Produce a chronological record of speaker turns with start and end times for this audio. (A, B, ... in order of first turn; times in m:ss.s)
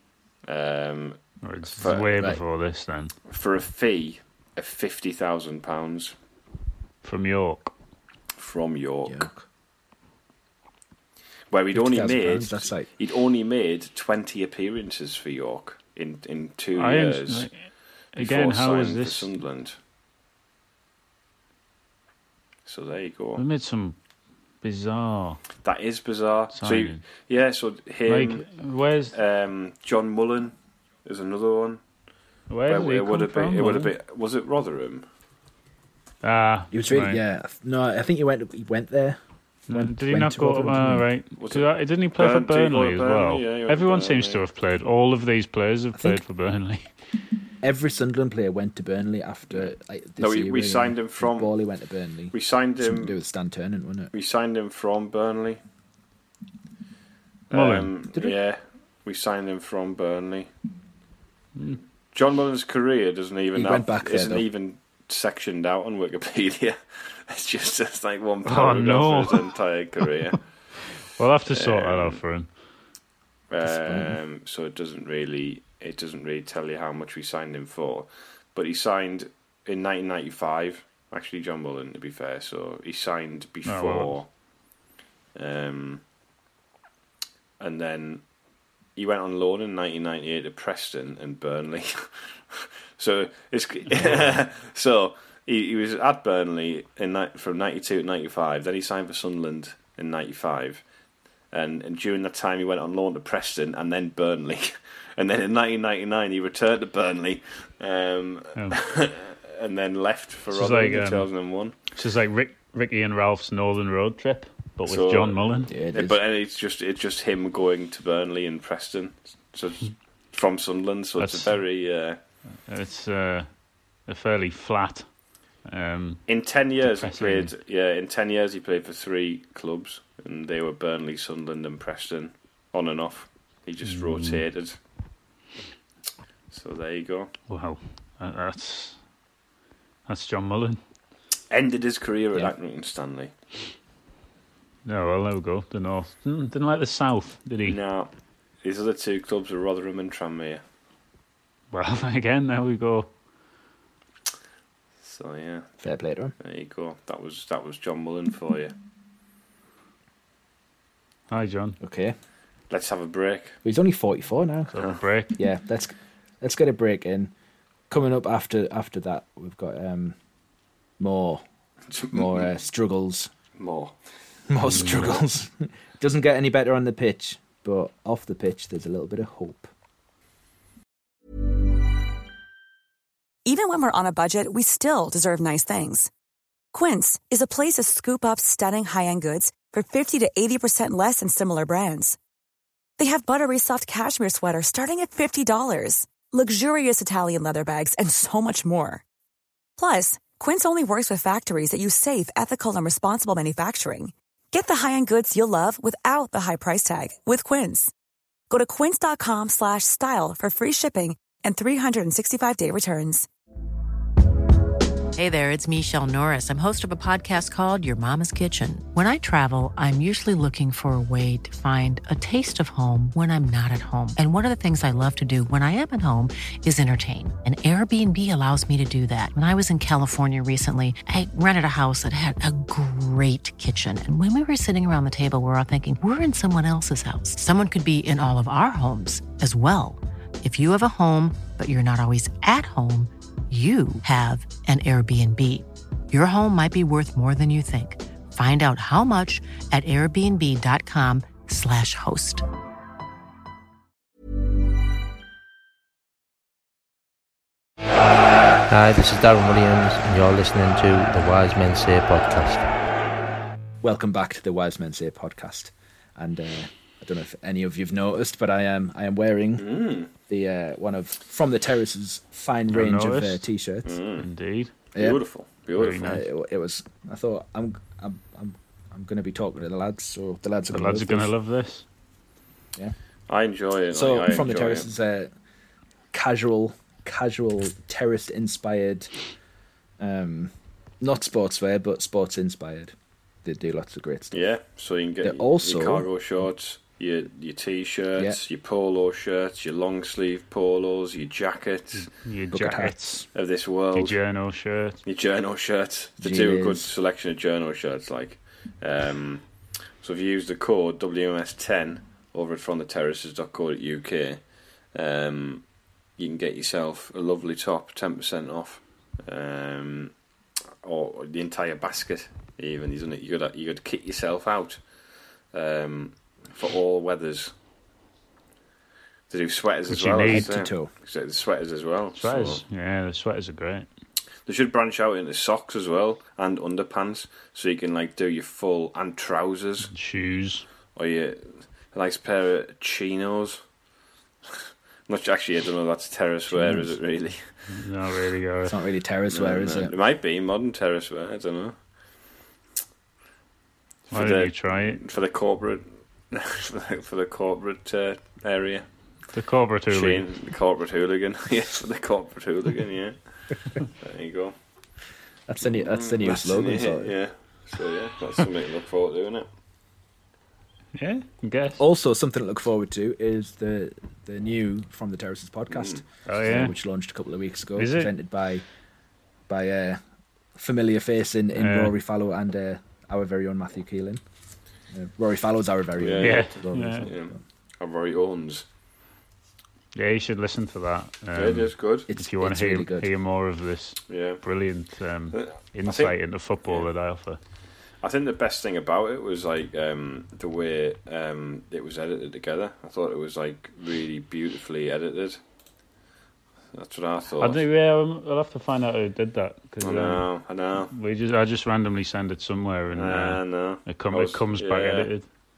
0:00.5-0:02.2 A
0:01.4-0:03.1 B
0:03.3-0:06.1 A
0:07.0-0:07.7 B
0:08.4-0:09.3 A
0:09.0-0:09.4 C
0:11.5-0:17.5 A
0:11.7-0:12.9 C
0:16.8-0:17.6 B
0:18.1-0:19.3 B
0:18.2-0:19.8 A
0:22.6-0:23.4 A
0:23.4-0:24.0 B
0:24.6-0:25.4 B
0:25.6-0:28.5 A
0:26.6-0:27.0 B
0:28.1-0:29.1 B
0:29.1-0:30.5 A
0:31.0-0:31.8 A
0:32.5-0:33.9 B
0:32.7-0:35.0 A
0:36.2-0:37.2 B
0:36.7-0:41.0 C
0:39.7-0:46.9 B
0:41.4-0:44.4 A
0:46.0-0:46.2 C
0:47.6-0:54.1 C
0:49.6-0:51.5 A
0:52.3-0:53.2 A
0:54.1-0:55.6 A
0:57.5-1:00.5 A
0:57.5-0:57.9 B
1:02.1-1:10.4 A
1:03.5-1:04.5 C
1:08.4-1:09.5 B
1:11.2-1:12.5 B
1:11.5-1:12.2 A
1:13.5-1:24.3 A
1:13.6-1:14.2 C
1:23.6-1:24.2 B
1:25.3-1:26.0 A
1:27.6-1:28.2 A
1:29.0-1:40.8 A
1:41.5-1:51.7 A
1:50.5-1:51.3 B
1:51.9-1:55.7 B
1:54.9-2:02.2 A
1:55.7-1:56.2 C
2:01.2-2:01.5 B
2:02.6-2:03.5 B
2:04.0-2:05.1 B
2:05.6-2:06.2 B
2:06.3-2:14.8 A
2:06.8-2:07.5 B
2:13.8-2:14.4 B
2:16.5-2:17.3 A
2:17.5-2:19.0 B
2:20.1-2:20.8 B
2:21.5-2:23.3 A
2:24.8-2:27.8 B
2:27.6-2:28.1 A
2:28.6-2:30.6 A
2:31.7-2:33.1 B
2:35.0-2:35.8 A
2:35.8-2:36.3 C
2:36.4-2:38.7 A
2:41.3-2:41.8 B
2:41.8-2:42.2 C
2:42.7-2:43.6 A
2:43.6-2:44.8 C
2:44.7-2:45.4 B
2:45.3-2:47.3 C
2:47.9-2:50.2 C
2:51.0-2:51.4 C
2:51.9-2:52.5 A
2:52.1-2:53.3 C
2:53.6-2:54.0 A
2:54.5-2:59.7 C
2:54.7-2:55.1 B
3:03.4-3:06.1 D
3:06.7-3:12.2 D
3:13.0-3:19.0 D
3:19.8-3:27.9 D
3:28.5-3:33.3 D
3:35.1-4:12.4 E
4:18.7-4:22.6 F
4:23.8-4:34.0 C
4:29.6-4:30.1 A
4:32.7-4:33.4 B
4:33.8-4:34.3 A
4:34.2-4:34.7 B
4:35.0-4:36.1 A
4:35.8-4:36.2 B
4:36.0-4:41.3 C
4:40.7-4:41.8 B
4:43.3-4:44.9 A
4:43.9-4:45.3 C
4:46.1-4:49.1 C
4:50.0-4:52.9 C
4:53.4-4:54.4 C
4:54.3-5:02.1 A
4:55.2-4:56.1 C
5:02.0-5:03.2 B
5:02.5-5:03.2 C
5:03.3-5:04.2 A
5:03.9-5:05.0 B
5:05.0-5:09.5 A
5:06.2-5:06.9 C
5:10.0-5:15.6 A
5:16.2-5:20.1 A
5:20.8-5:24.8 A
5:25.5-5:27.5 A
5:29.3-5:32.6 A
5:29.9-5:30.5 B
5:30.2-5:30.9 C
5:32.2-5:33.9 B
5:34.4-5:39.9 A
5:39.9-5:40.6 B
5:40.9-5:43.6 A
5:45.1-5:47.5 A
5:46.5-5:47.0 C
5:47.7-5:48.8 B
5:48.6-5:49.9 C
5:49.3-5:51.8 A
5:54.1-5:58.8 A
5:54.1-5:55.0 B
5:59.3-6:00.2 B
5:59.9-6:03.2 A
6:03.8-6:04.5 A
6:05.5-6:07.2 C
6:05.8-6:09.5 A
6:11.0-6:11.8 B
6:11.8-6:18.6 C
6:15.7-6:16.0 A
6:16.2-6:16.7 B
6:17.8-6:18.1 B
6:19.5-6:20.0 C
6:20.6-6:24.2 C
6:21.5-6:21.9 B
6:24.9-6:27.4 C
6:26.0-6:28.6 A
6:26.2-6:27.1 B
6:29.9-6:37.4 B
6:31.3-6:32.1 A
6:32.1-6:33.1 C
6:34.1-6:34.4 A
6:35.3-6:36.9 A
6:38.0-6:45.4 A
6:46.7-6:47.6 A
6:47.4-6:50.3 B
6:49.8-6:50.9 A
6:50.9-6:55.2 B
6:52.9-6:55.1 A